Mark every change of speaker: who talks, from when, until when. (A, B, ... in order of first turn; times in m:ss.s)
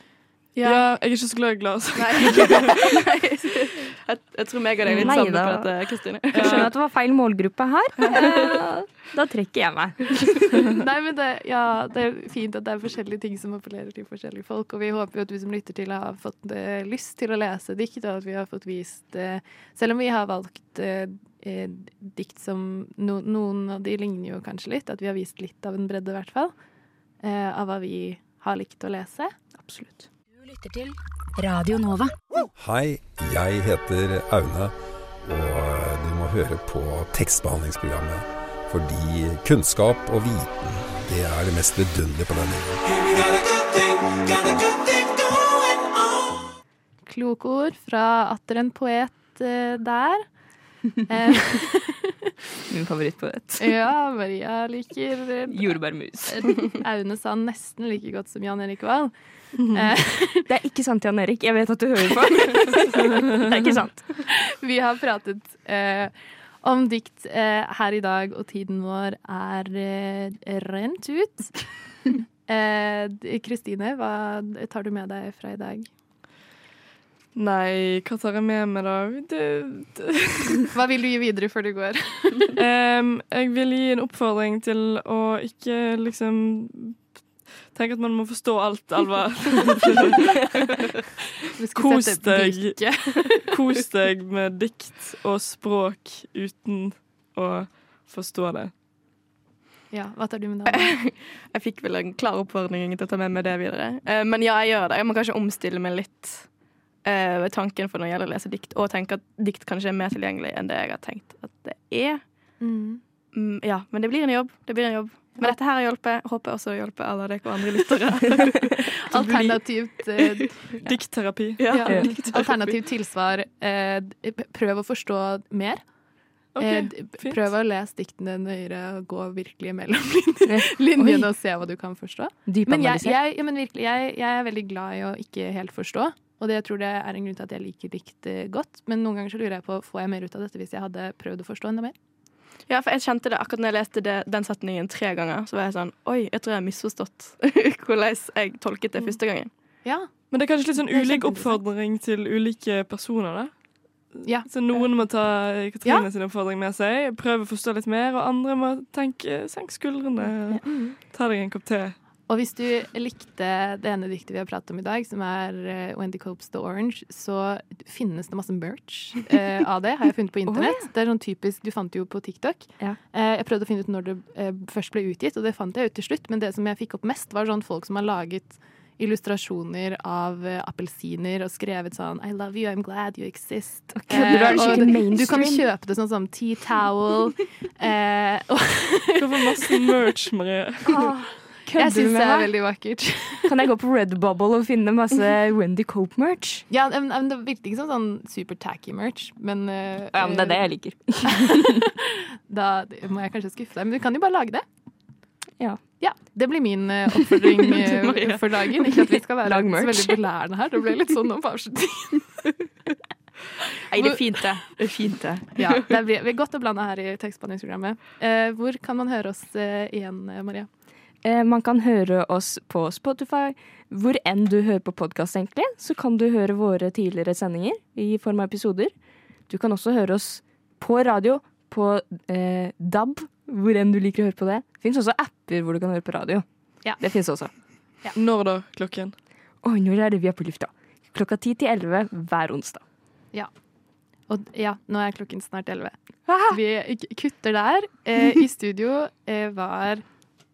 0:00.5-0:00.8 A
0:00.6-0:03.0 B
0:02.0-0:06.7 A
0:04.9-0:05.1 B
0:05.0-0:05.7 C
0:06.3-0:10.6 C
0:06.3-0:06.7 B
0:08.0-0:08.4 A
0:10.8-0:26.5 D
0:27.2-0:29.3 D
0:29.6-0:32.2 C
0:32.5-0:43.2 E
0:47.0-0:50.3 D
0:51.0-0:52.0 D
0:52.7-0:53.8 C
0:53.6-1:00.5 D
0:55.5-0:56.6 C
1:00.4-1:04.3 C
1:04.6-1:15.9 D
1:17.3-1:20.7 B
1:20.7-1:22.5 D
1:22.5-1:30.9 B
1:31.6-1:33.5 D
1:31.7-1:38.7 B
1:39.9-1:40.9 D
1:40.7-1:46.5 A
1:47.0-1:52.2 A
1:52.6-1:53.0 D
1:53.3-1:59.5 A
1:59.1-2:00.8 D
2:00.8-2:02.4 B
2:01.6-2:02.3 A
2:01.7-2:05.9 D
2:01.9-2:02.1 C
2:06.5-2:07.4 B
2:06.6-2:21.9 D
2:10.4-2:11.3 C
2:12.4-2:13.2 C
2:22.7-2:29.5 A
2:29.8-2:30.3 D
2:30.3-2:42.0 B
2:30.9-2:31.6 D
2:34.2-2:36.0 D
2:40.6-2:41.0 D
2:42.3-3:09.8 D
2:50.4-2:50.9 C
3:03.9-3:05.6 C
3:04.2-3:04.5 B
3:09.2-3:11.1 B
3:10.8-3:12.5 C
3:11.8-3:13.5 D
3:13.4-3:16.6 C
3:16.7-3:20.7 D
3:20.1-3:21.6 C
3:21.7-3:24.6 D
3:25.6-3:25.8 C
3:26.0-3:32.4 D
3:29.4-3:30.2 C
3:33.9-3:35.8 A
3:34.0-3:35.2 C
3:35.6-3:40.7 D
3:41.2-3:48.9 C
3:49.5-3:56.4 C
3:57.0-3:57.5 C
3:58.1-3:59.1 B
3:59.6-4:02.8 C
4:04.3-4:10.0 D
4:06.3-4:06.6 C